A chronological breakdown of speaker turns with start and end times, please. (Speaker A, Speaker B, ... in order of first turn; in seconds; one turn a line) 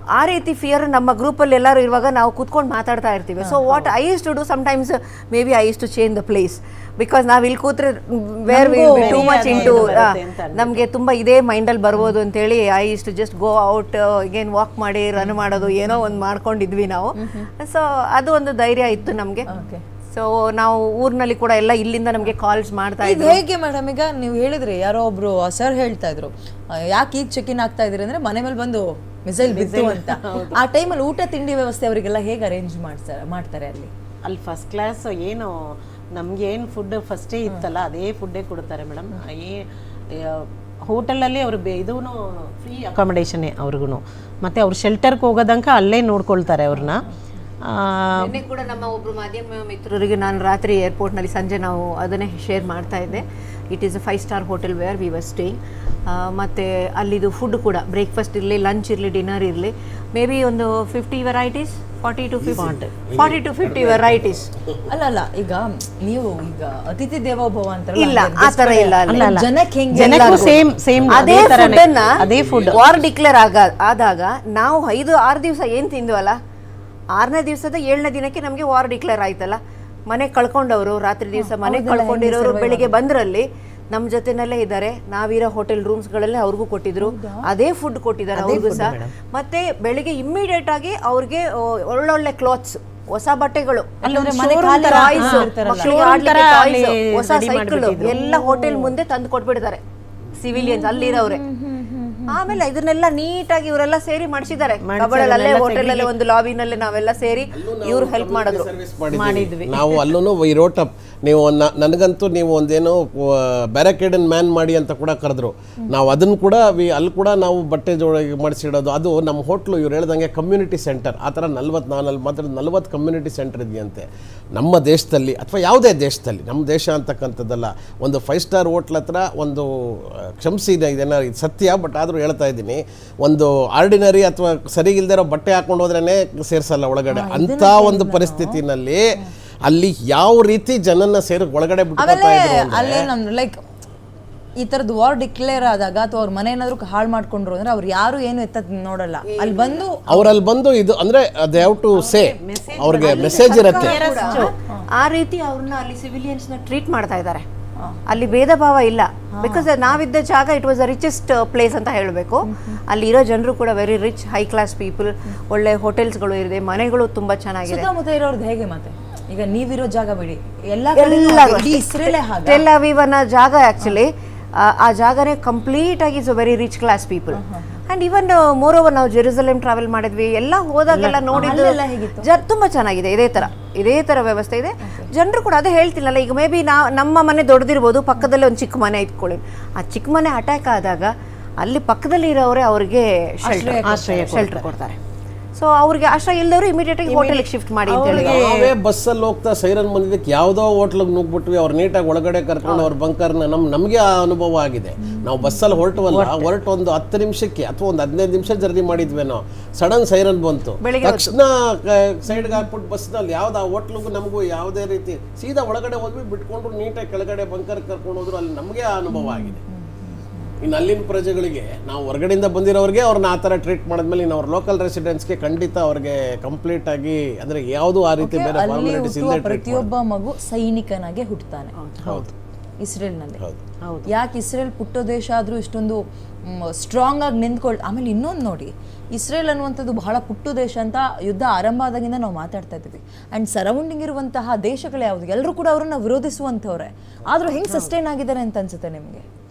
Speaker A: 0.1-19.5
Speaker B: 3.7-3.9
Speaker C: 8.5-10.0
Speaker B: 8.9-10.8
Speaker C: 15.2-16.2
Speaker C: 17.2-17.5
Speaker C: 19.5-19.8
Speaker A: 20.1-23.4
Speaker C: 23.0-33.9
Speaker B: 29.4-30.6
Speaker B: 34.2-47.1
Speaker B: 47.6-48.3
Speaker A: 48.2-64.5
Speaker D: 62.4-64.8
Speaker B: 62.6-62.9
Speaker C: 64.9-70.5
Speaker A: 68.0-69.3
Speaker B: 69.1-72.8
Speaker A: 70.0-76.4
Speaker D: 70.1-73.1
Speaker A: 77.2-94.0
Speaker C: 81.3-83.0
Speaker C: 87.0-87.5
Speaker B: 88.3-89.1
Speaker C: 88.5-88.9
Speaker C: 94.0-96.0
Speaker B: 94.0-98.1
Speaker A: 94.8-99.8
Speaker C: 98.0-98.9
Speaker A: 100.4-101.4
Speaker C: 100.5-102.6
Speaker A: 102.3-108.7
Speaker B: 104.8-106.1
Speaker D: 107.5-139.0
Speaker B: 109.1-110.1
Speaker C: 137.1-138.6
Speaker D: 139.7-143.1
Speaker C: 142.0-143.6
Speaker C: 144.6-150.3
Speaker A: 149.3-149.8
Speaker D: 150.1-153.9
Speaker B: 151.9-154.5
Speaker A: 152.9-157.4
Speaker C: 153.6-154.0
Speaker C: 154.6-154.9
Speaker A: 158.1-167.9
Speaker C: 159.3-159.7
Speaker C: 162.5-162.8
Speaker C: 167.7-172.7
Speaker A: 171.0-195.0
Speaker C: 177.3-177.8
Speaker C: 180.9-182.3
Speaker C: 184.8-185.1
Speaker C: 193.4-194.2
Speaker B: 193.8-194.7
Speaker A: 195.6-198.4
Speaker B: 197.1-198.7
Speaker D: 198.1-219.6
Speaker A: 202.7-202.9
Speaker C: 205.4-205.8
Speaker B: 206.1-206.5
Speaker A: 210.8-211.3
Speaker C: 212.3-212.7
Speaker C: 219.1-220.5
Speaker D: 220.6-229.9
Speaker C: 228.2-231.7
Speaker B: 231.8-232.3
Speaker C: 232.8-233.4
Speaker B: 233.8-234.1
Speaker C: 234.1-249.2
Speaker B: 247.6-247.9